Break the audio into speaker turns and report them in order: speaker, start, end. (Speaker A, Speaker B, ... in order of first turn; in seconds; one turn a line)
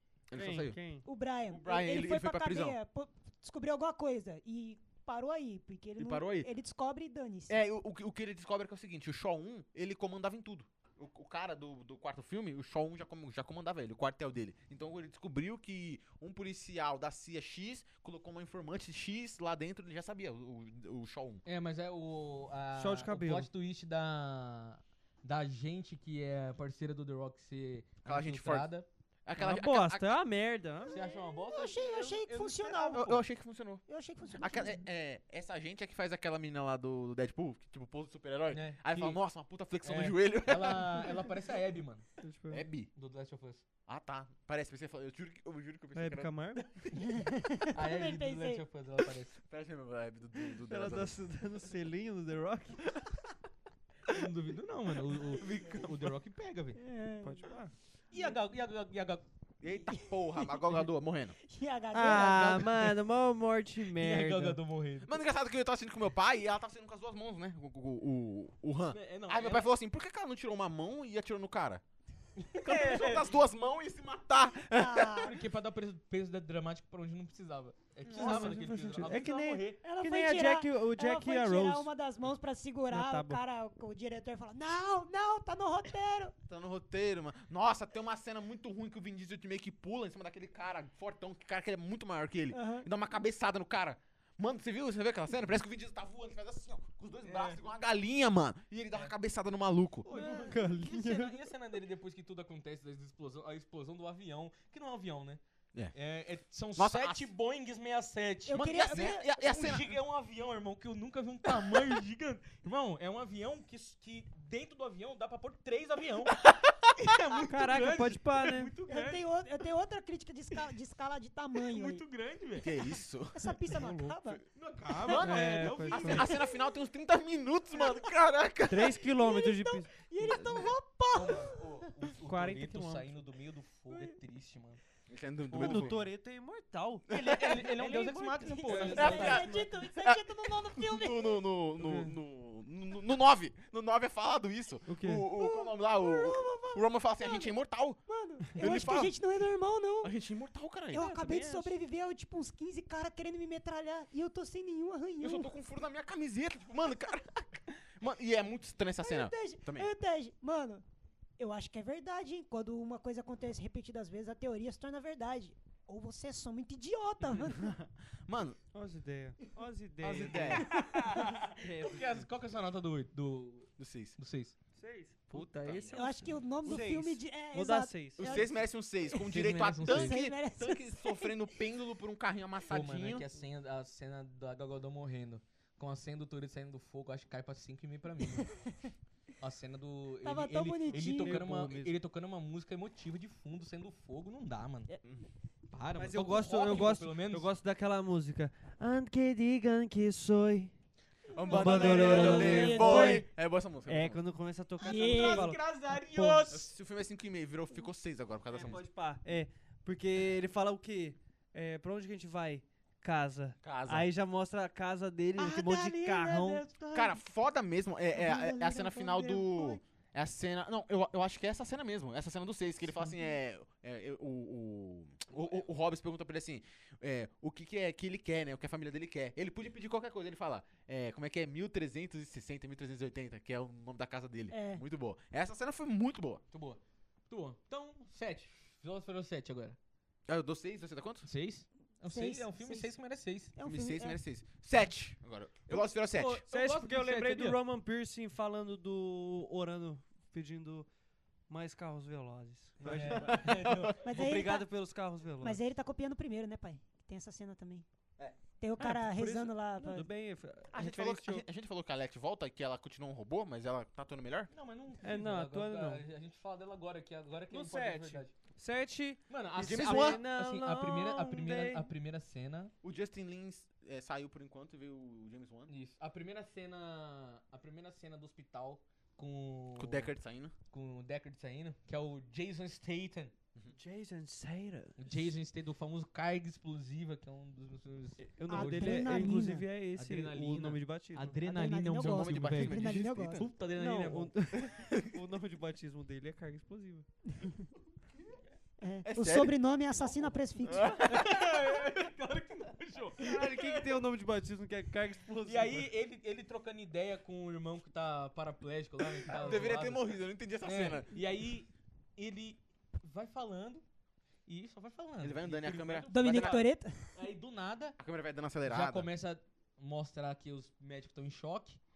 Speaker A: 0.3-0.8
Speaker B: 0.3-1.1
Speaker C: 1.1-7.6
Speaker A: 1.5-2.8
Speaker A: 6.0-6.5
Speaker A: 7.5-21.4
Speaker D: 21.4-28.9
Speaker B: 22.8-23.5
Speaker A: 28.1-28.7
Speaker A: 29.3-30.2
Speaker B: 29.4-31.0
Speaker D: 30.9-33.2
Speaker C: 30.9-33.2
Speaker A: 32.9-41.3
Speaker C: 33.9-34.8
Speaker D: 38.5-39.2
Speaker D: 39.8-42.0
Speaker B: 42.2-42.6
Speaker A: 42.5-42.9
Speaker D: 43.0-43.6
Speaker A: 43.9-47.0
Speaker B: 46.0-46.6
Speaker C: 47.0-48.6
Speaker D: 47.7-49.4
Speaker A: 49.4-51.2
Speaker B: 50.7-53.0
Speaker D: 54.1-56.8
Speaker A: 55.3-56.1
Speaker C: 56.8-57.5
Speaker B: 57.2-57.7
Speaker D: 58.1-59.3
Speaker A: 59.6-61.4
Speaker C: 59.9-60.6
Speaker C: 61.4-62.8
Speaker B: 61.9-64.6
Speaker D: 62.0-63.0
Speaker D: 63.9-65.2
Speaker A: 65.0-71.8
Speaker D: 68.9-69.7
Speaker D: 72.5-73.3
Speaker A: 72.5-75.3
Speaker C: 74.7-75.4
Speaker D: 75.2-79.8
Speaker A: 78.0-78.7
Speaker B: 78.1-81.9
Speaker C: 79.8-86.3
Speaker B: 82.9-83.4
Speaker A: 86.5-100.1
Speaker C: 92.5-92.9
Speaker D: 97.2-97.6
Speaker D: 100.0-105.4
Speaker B: 100.1-101.4
Speaker D: 105.9-119.2
Speaker A: 106.8-107.3
Speaker C: 108.5-109.3
Speaker A: 108.5-109.9
Speaker B: 117.5-118.7
Speaker C: 118.9-122.0
Speaker D: 121.6-122.7
Speaker A: 122.6-123.6
Speaker C: 123.3-124.4
Speaker B: 123.7-124.1
Speaker D: 124.5-126.4
Speaker A: 125.0-129.1
Speaker C: 125.1-125.3
Speaker B: 125.1-126.3
Speaker C: 126.3-126.6
Speaker C: 127.7-128.0
Speaker B: 128.7-130.7
Speaker C: 129.1-131.7
Speaker D: 131.1-134.8
Speaker B: 132.2-133.1
Speaker C: 133.9-134.2
Speaker A: 135.1-136.0
Speaker D: 135.5-136.0
Speaker B: 135.5-139.6
Speaker D: 137.1-139.6
Speaker C: 138.7-141.4
Speaker A: 138.9-148.0
Speaker B: 141.8-142.1
Speaker B: 144.9-145.3
Speaker C: 145.3-147.6
Speaker C: 148.1-150.1
Speaker A: 148.5-149.2
Speaker A: 150.0-151.1
Speaker C: 150.9-155.5
Speaker B: 150.9-151.8
Speaker A: 155.2-159.9
Speaker C: 159.0-160.8
Speaker C: 161.4-167.7
Speaker A: 167.5-168.6
Speaker B: 168.7-172.3
Speaker A: 170.0-170.7
Speaker D: 170.4-174.6
Speaker C: 170.7-171.1
Speaker A: 173.8-174.2
Speaker B: 174.8-178.3
Speaker A: 175.3-176.0
Speaker D: 175.4-175.9
Speaker C: 175.9-181.4
Speaker A: 178.2-183.2
Speaker D: 179.2-180.2
Speaker D: 182.7-188.5
Speaker C: 188.4-188.7
Speaker D: 189.4-194.9
Speaker C: 190.2-191.4
Speaker B: 190.9-191.9
Speaker D: 195.7-197.5
Speaker B: 195.9-200.7
Speaker A: 201.3-204.2
Speaker B: 201.5-203.3
Speaker D: 201.5-202.9
Speaker C: 201.5-203.2
Speaker B: 203.9-206.4
Speaker C: 204.8-205.5
Speaker D: 204.8-206.7
Speaker A: 206.5-208.8
Speaker D: 208.5-208.8
Speaker B: 208.6-216.6
Speaker A: 213.6-214.1
Speaker C: 215.4-217.2
Speaker A: 216.9-236.4
Speaker C: 218.1-219.8
Speaker C: 234.5-234.8
Speaker D: 236.5-239.8
Speaker A: 240.3-241.3
Speaker D: 241.2-243.5
Speaker C: 242.1-242.9
Speaker C: 243.6-244.2
Speaker A: 243.6-246.4
Speaker D: 245.7-247.6
Speaker B: 246.5-250.9
Speaker B: 251.5-253.5
Speaker D: 252.8-254.1
Speaker A: 252.9-253.9
Speaker C: 254.0-254.7
Speaker B: 254.0-255.6
Speaker C: 255.4-257.9
Speaker C: 258.6-260.1
Speaker B: 258.8-261.4
Speaker A: 260.7-264.5
Speaker D: 264.5-268.3
Speaker B: 265.0-266.0
Speaker B: 267.5-271.9
Speaker D: 269.3-272.7
Speaker A: 269.6-270.2
Speaker A: 272.8-275.7
Speaker D: 275.7-280.1
Speaker A: 279.8-280.5
Speaker D: 280.7-283.4
Speaker B: 283.8-285.3
Speaker D: 285.0-289.4
Speaker B: 288.2-291.4
Speaker C: 288.5-289.7
Speaker D: 289.9-294.3
Speaker C: 291.4-293.4
Speaker A: 291.9-293.5
Speaker B: 293.8-297.1
Speaker A: 294.5-295.2
Speaker C: 298.8-301.1
Speaker A: 299.1-299.6
Speaker D: 300.0-303.9
Speaker A: 300.6-301.7
Speaker B: 303.2-305.9
Speaker D: 305.4-313.8
Speaker A: 309.3-311.1
Speaker D: 314.4-318.0
Speaker A: 315.2-316.6
Speaker C: 316.1-317.1
Speaker A: 318.0-319.1
Speaker D: 318.6-321.8